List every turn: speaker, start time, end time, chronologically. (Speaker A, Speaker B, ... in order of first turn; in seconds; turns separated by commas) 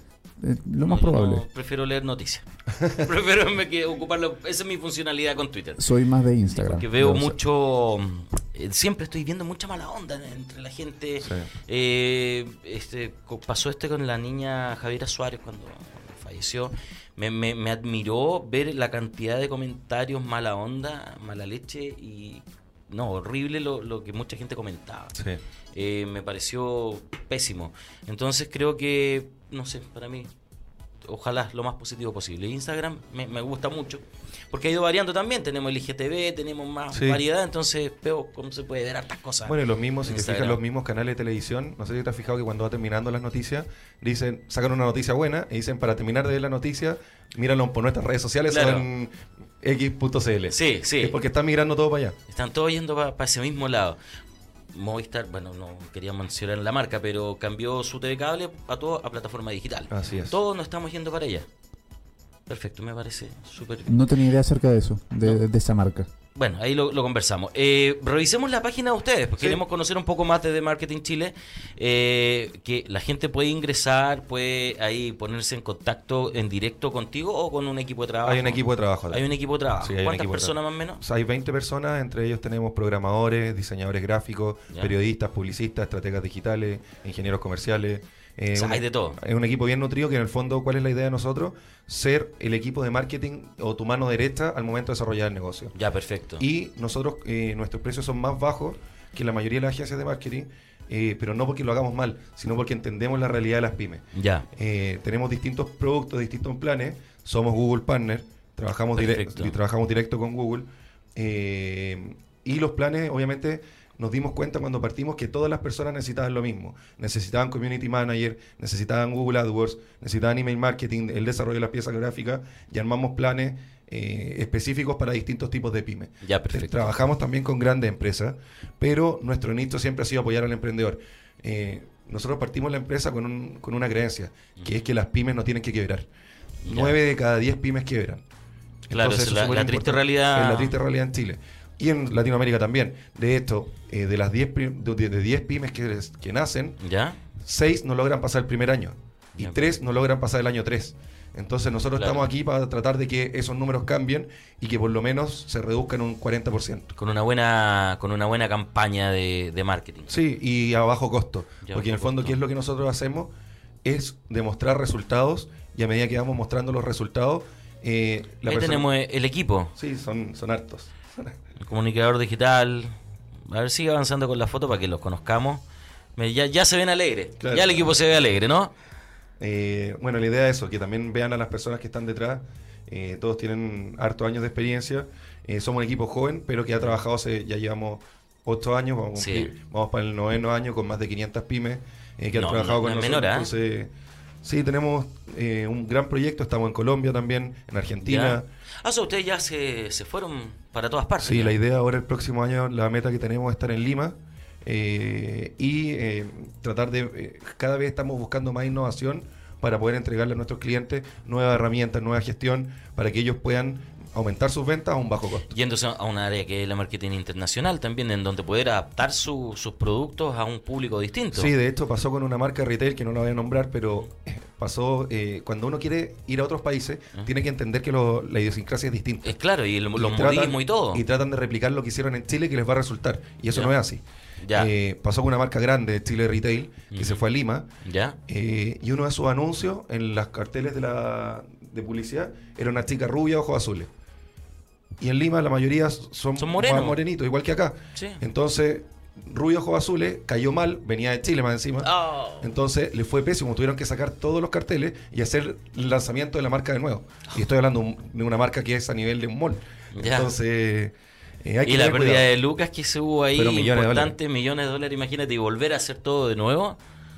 Speaker A: 0.4-1.4, Speaker B: 0.8-5.8, Speaker C: 2.8-3.0, Speaker A: 5.8-7.4, Speaker B: 6.5-25.1, Speaker C: 11.2-11.5, Speaker B: 25.7-30.3, Speaker B: 31.0-40.6, Speaker C: 36.9-37.2, Speaker C: 39.5-52.2, Speaker B: 48.5-48.9, Speaker B: 50.5-51.2, Speaker B: 52.3-54.0, Speaker B: 54.7-61.5, Speaker C: 59.9-60.4, Speaker B: 62.5-64.0, Speaker A: 63.9-66.1, Speaker B: 66.3-81.0, Speaker C: 78.2-79.2, Speaker C: 79.8-95.7, Speaker B: 88.5-89.2, Speaker B: 95.7-96.4, Speaker C: 96.4-136.1, Speaker B: 104.1-104.5, Speaker B: 108.9-109.6, Speaker B: 126.2-126.9, Speaker B: 136.6-137.0, Speaker C: 136.7-138.2, Speaker C: 138.9-146.8, Speaker B: 138.9-140.8, Speaker B: 146.8-147.2, Speaker C: 147.4-156.9, Speaker B: 149.3-149.7, Speaker B: 151.9-152.2, Speaker B: 157.0-160.1, Speaker C: 160.1-163.3, Speaker B: 161.6-162.4, Speaker C: 163.8-168.9, Speaker B: 168.4-169.7, Speaker C: 169.8-171.3, Speaker B: 171.6-172.9, Speaker B: 173.4-175.6, Speaker B: 176.2-178.7, Speaker C: 177.4-177.9, Speaker C: 179.4-193.9, Speaker B: 189.2-189.5, Speaker B: 192.3-193.5, Speaker C: 194.4-198.5, Speaker B: 198.0-201.6, Speaker C: 201.2-215.5, Speaker B: 215.5-221.5, Speaker C: 221.3-229.4, Speaker B: 229.2-231.0, Speaker C: 229.9-237.7, Speaker B: 234.4-234.7, Speaker B: 236.9-237.2, Speaker B: 237.8-238.2, Speaker C: 238.3-243.9, Speaker C: 245.0-262.3, Speaker B: 246.4-247.0, Speaker B: 247.9-248.2, Speaker B: 251.8-252.5, Speaker B: 259.9-260.3, Speaker B: 261.6-266.8, Speaker C: 263.3-264.1